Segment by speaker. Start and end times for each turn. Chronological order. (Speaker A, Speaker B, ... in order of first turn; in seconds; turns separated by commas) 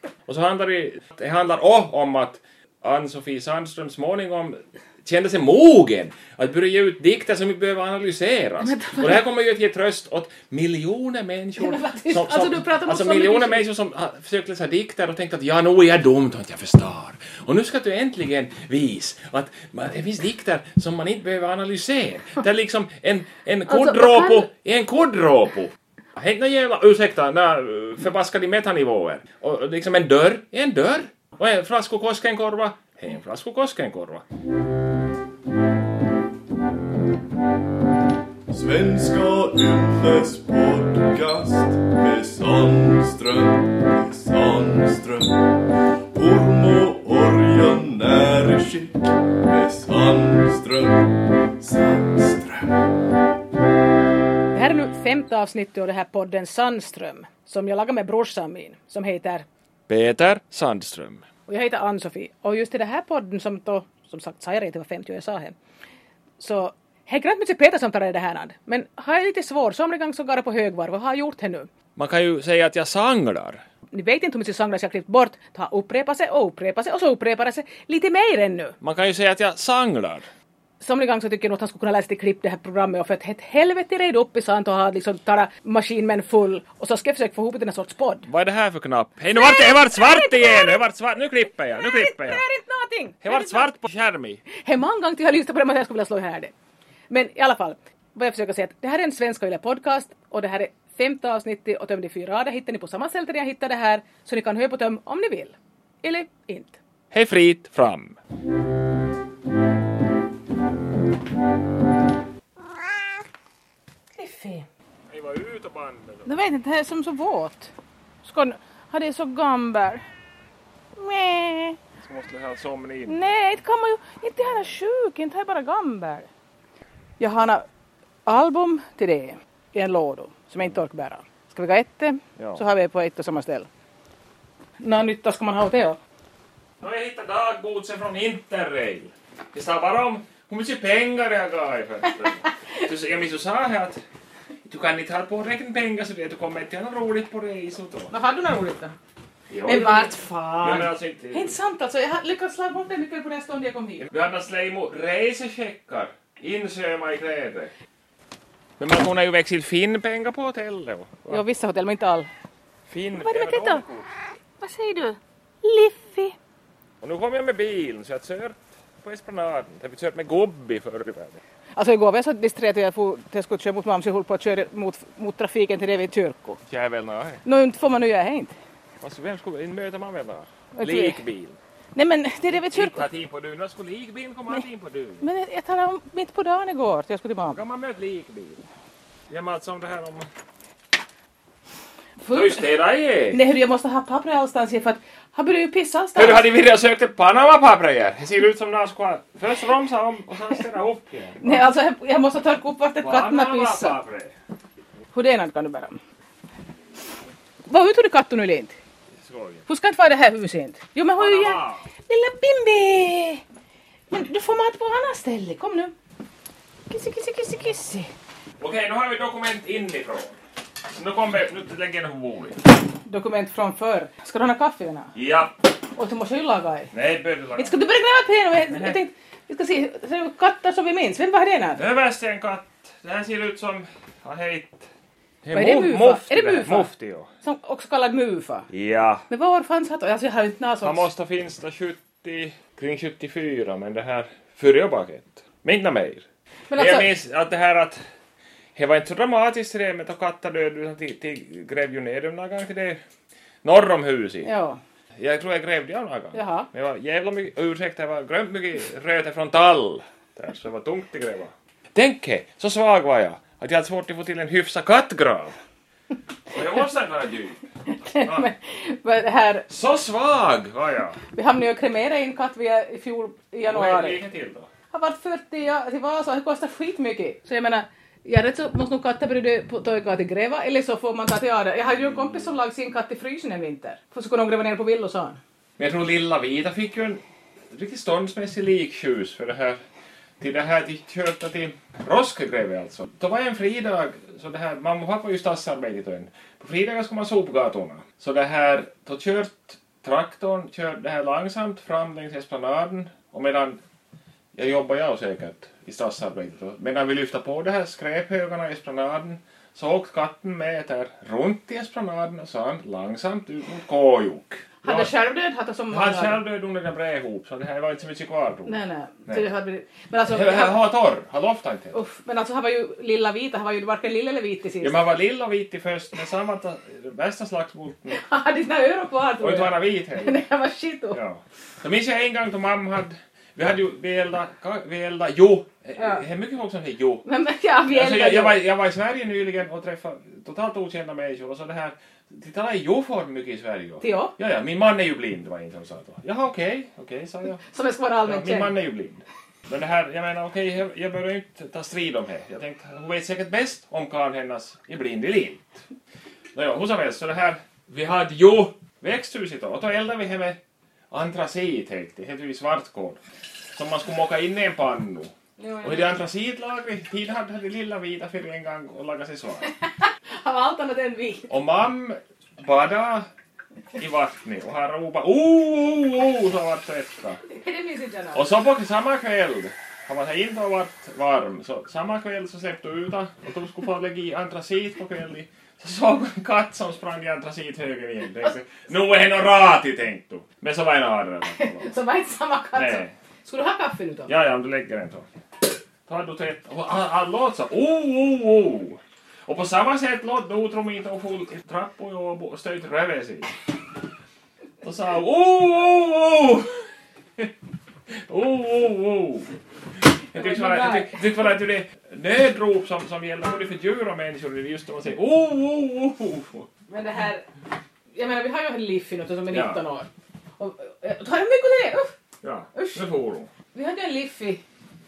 Speaker A: 0.3-34.2, Speaker B: 8.6-9.2, Speaker B: 11.6-13.7, Speaker B: 23.7-24.5, Speaker C: 38.5-52.9, Speaker B: 54.5-59.5, Speaker A: 59.9-61.2, Speaker B: 61.5-65.6, Speaker B: 66.4-71.7, Speaker A: 72.0-73.6, Speaker B: 73.9-78.8, Speaker A: 78.8-80.3, Speaker B: 80.8-88.3, Speaker A: 88.3-92.4, Speaker B: 89.3-90.8, Speaker B: 91.7-93.7, Speaker A: 93.2-94.4, Speaker B: 94.5-96.5, Speaker B: 97.1-106.8, Speaker A: 107.1-108.2, Speaker B: 114.2-114.7, Speaker A: 115.1-116.3, Speaker B: 116.3-120.0, Speaker B: 121.0-121.8, Speaker A: 122.0-123.4, Speaker B: 123.1-126.3, Speaker B: 127.2-127.7, Speaker B: 128.3-133.7, Speaker A: 132.4-132.6, Speaker B: 134.8-136.0, Speaker A: 136.8-144.0, Speaker A: 144.7-148.1, Speaker B: 148.1-148.9, Speaker A: 149.5-151.6, Speaker B: 149.7-154.1, Speaker A: 154.0-157.7, Speaker A: 158.8-161.4, Speaker B: 161.3-162.3, Speaker A: 162.9-164.1, Speaker B: 163.2-163.8, Speaker B: 164.6-166.3, Speaker A: 167.0-171.4, Speaker B: 171.8-176.6, Speaker A: 176.7-177.4, Speaker B: 177.4-178.6, Speaker A: 179.0-181.6, Speaker B: 180.8-181.2, Speaker B: 181.9-183.1, Speaker A: 182.7-185.3, Speaker B: 185.2-187.6, Speaker A: 187.5-188.6, Speaker A: 189.3-190.3, Speaker B: 192.2-192.7, Speaker A: 192.3-193.4, Speaker B: 193.3-196.4, Speaker A: 196.2-201.7, Speaker B: 201.4-203.9, Speaker A: 203.0-204.3, Speaker B: 205.1-206.0, Speaker B: 207.7-208.8, Speaker A: 209.2-209.7, Speaker B: 209.7-213.4, Speaker A: 211.2-211.9, Speaker B: 214.1-215.9, Speaker B: 216.9-218.1, Speaker A: 218.6-220.4, Speaker A: 220.9-222.6, Speaker B: 223.1-225.1, Speaker A: 225.1-225.6, Speaker B: 226.0-226.9, Speaker A: 226.9-227.8, Speaker B: 227.6-231.8, Speaker A: 228.7-229.0, Speaker A: 231.8-234.9, Speaker A: 235.4-237.3, Speaker B: 235.5-236.9, Speaker B: 237.4-238.7, Speaker A: 238.7-239.2, Speaker B: 239.3-241.1, Speaker A: 240.8-246.2, Speaker B: 246.7-247.1, Speaker A: 246.8-248.0, Speaker A: 248.8-253.0, Speaker A: 253.6-254.5, Speaker B: 254.4-254.8, Speaker A: 255.2-265.6, Speaker B: 256.3-256.7, Speaker A: 266.5-268.5, Speaker B: 267.9-269.7, Speaker A: 269.7-271.2, Speaker B: 271.3-274.2, Speaker A: 273.6-274.7, Speaker B: 274.9-285.4, Speaker A: 285.8-289.8, Speaker A: 290.4-303.8, Speaker A: 304.6-315.1, Speaker B: 314.8-316.4, Speaker A: 315.9-319.5, Speaker B: 318.7-320.8, Speaker A: 320.3-322.0, Speaker B: 321.9-325.0, Speaker A: 324.8-328.2, Speaker B: 328.1-331.2, Speaker A: 329.4-330.4, Speaker A: 331.1-337.2, Speaker B: 336.0-336.2, Speaker B: 337.2-338.6, Speaker A: 337.9-347.6, Speaker B: 344.0-344.3, Speaker B: 347.6-348.8, Speaker A: 348.3-355.8, Speaker A: 356.5-360.6, Speaker A: 361.1-363.2, Speaker A: 363.7-369.7, Speaker B: 365.6-366.2, Speaker B: 370.4-371.5, Speaker A: 371.5-373.3, Speaker A: 374.0-377.4, Speaker B: 377.5-378.5, Speaker A: 378.3-391.9, Speaker B: 391.6-394.3, Speaker A: 392.8-393.1, Speaker A: 394.3-395.3, Speaker A: 396.1-403.6, Speaker A: 404.8-406.8, Speaker A: 408.1-409.5, Speaker A: 410.3-416.7, Speaker B: 410.3-411.4, Speaker B: 416.9-417.5, Speaker B: 418.1-422.1, Speaker A: 419.5-419.8, Speaker A: 422.4-423.5, Speaker B: 422.7-423.1, Speaker B: 423.7-424.6